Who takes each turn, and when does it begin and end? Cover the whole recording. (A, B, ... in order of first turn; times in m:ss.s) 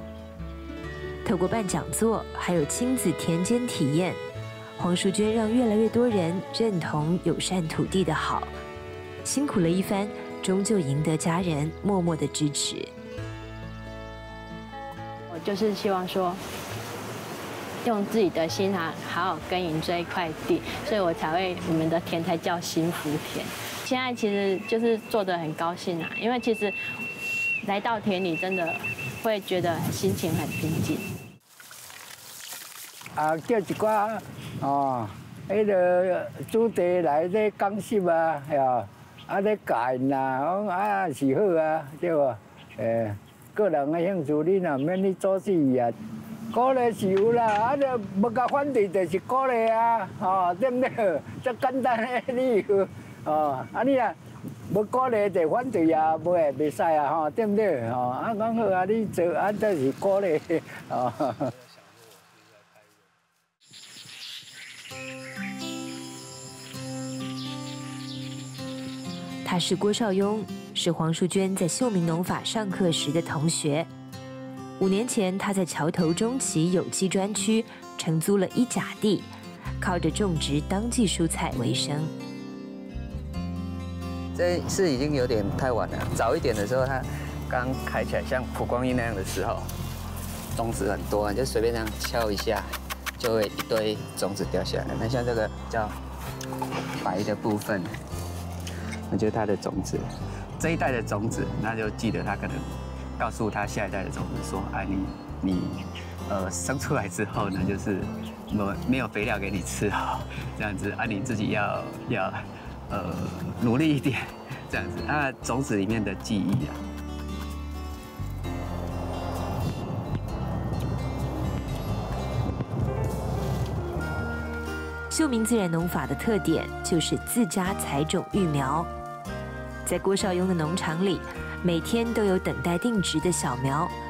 0:01.2-0:04.2 A
0:04.8-0:08.5 A
0:09.2-0:12.9 A
0:15.3-0:16.4 B
0:17.8-0:26.8 B
0:27.6-0:31.1 B
0:33.2-0:46.0 C
0:46.5-0:54.2 C
0:54.7-1:01.5 C
1:09.4-1:13.9 A
1:14.8-1:19.3 A
1:19.8-1:22.1 A
1:24.4-1:29.7 D
1:30.6-1:36.0 D
1:37.0-1:37.9 D
1:39.1-1:40.1 D
1:40.6-1:56.8 D
2:05.1-2:08.9 A
2:09.8-2:13.9 A